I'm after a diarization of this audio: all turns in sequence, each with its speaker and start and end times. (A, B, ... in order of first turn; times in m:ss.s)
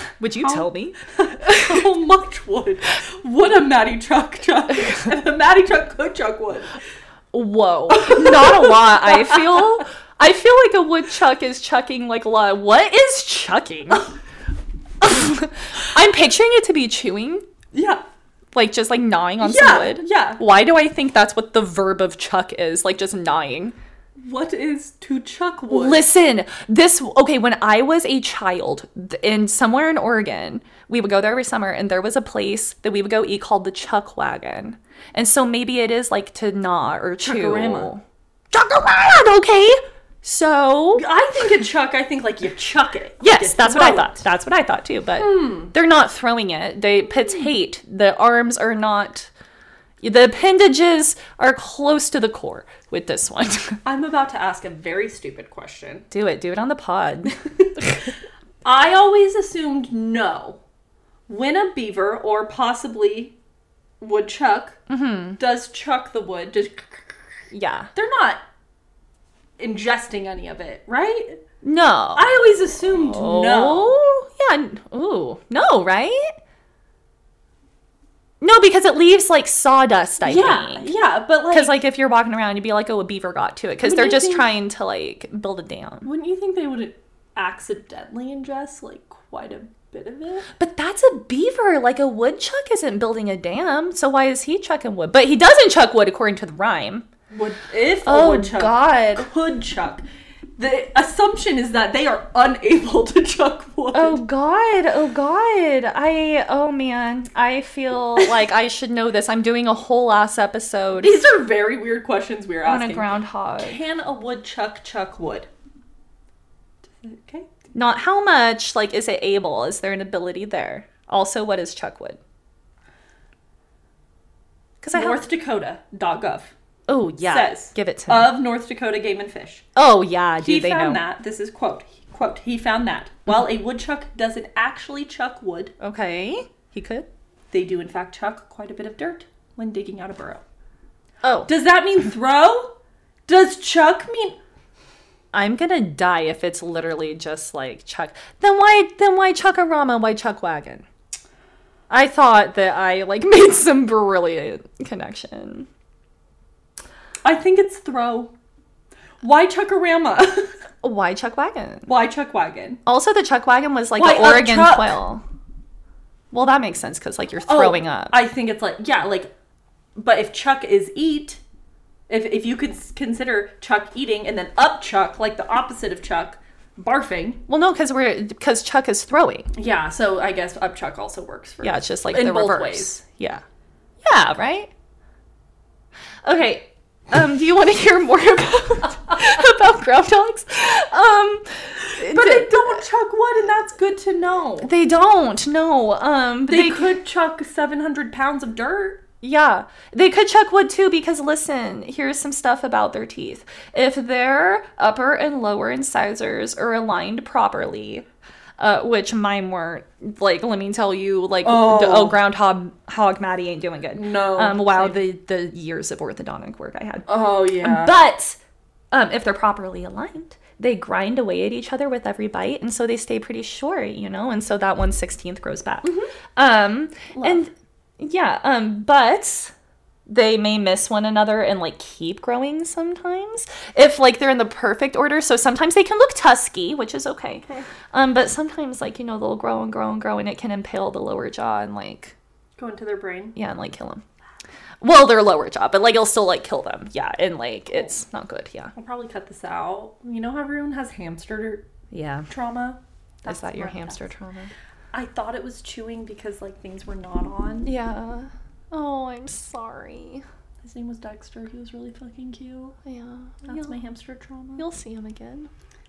0:00.2-0:01.8 A
0:00.4-0:06.8 B
0:07.3-0:14.1 A
0:07.9-0:09.6 B
0:15.0-0:17.4 A
0:17.7-0:18.0 B
0:18.5-0:23.8 A
0:19.4-0:20.4 B
0:24.2-0:26.0 B
0:25.7-0:41.0 A
0:37.2-0:37.9 B
0:40.9-0:44.2 B
0:43.2-0:49.3 A
0:45.2-0:45.7 B
0:50.0-0:53.8 A
0:53.8-0:56.1 B
0:56.1-0:58.0 A
0:58.6-1:00.6 B
1:01.3-1:03.4 B
1:04.0-1:04.8 B
1:04.9-1:05.4 A
1:05.4-1:07.2 B
1:07.5-1:07.9 A
1:07.9-1:08.4 B
1:09.6-1:11.4 B
1:11.6-1:16.3 A
1:12.1-1:14.0 B
1:18.4-1:20.9 A
1:20.2-1:21.8 B
1:21.5-1:26.1 A
1:23.8-1:24.5 B
1:26.0-1:30.5 B
1:30.6-1:37.1 A
1:37.3-1:40.0 B
1:38.0-1:39.3 A
1:40.6-1:44.2 B
1:43.9-1:51.2 A
1:51.0-1:55.5 B
1:52.6-1:53.8 A
1:56.8-1:57.5 B
1:57.7-2:02.2 A
2:04.8-2:05.2 A
2:04.9-2:06.5 B
2:06.9-2:08.3 A
2:07.2-2:09.6 B
2:09.7-2:11.0 A
2:10.4-2:15.7 B
2:15.8-2:17.1 A
2:17.5-2:20.4 B
2:21.2-2:21.5 A
2:21.5-2:22.7 B
2:23.3-2:24.4 B
2:25.3-2:30.8 A
2:31.9-2:35.7 A
2:37.2-2:38.3 B
2:39.2-2:40.5 B
2:40.8-2:41.9 A
2:41.9-2:42.8 B
2:42.8-2:45.2 A
2:44.0-2:45.0 B
2:46.3-2:48.2 A
2:47.4-2:49.3 B
2:50.0-2:51.4 B
2:52.1-2:57.4 B
2:57.5-2:59.5 A
2:59.5-3:03.0 B
3:01.6-3:03.4 A
3:04.0-3:04.7 A
3:06.2-3:12.8 A
3:11.9-3:14.7 B
3:14.6-3:17.0 A
3:16.5-3:19.0 B
3:19.2-3:28.0 A
3:28.6-3:38.4 A
3:31.4-3:32.2 B
3:33.9-3:35.0 B
3:37.1-3:37.9 B
3:38.9-3:49.5 A
3:45.8-3:46.1 B
3:47.1-3:47.4 B
3:50.1-4:02.1 A
4:02.6-4:03.4 B
4:03.4-4:04.0 A
4:04.8-4:08.7 A
4:08.7-4:11.7 B
4:11.9-4:12.3 A
4:12.3-4:14.0 B
4:13.2-4:14.5 A
4:14.9-4:17.7 B
4:17.6-4:20.2 A
4:20.6-4:22.8 B
4:22.8-4:23.7 A
4:23.4-4:24.6 B
4:24.6-4:25.5 A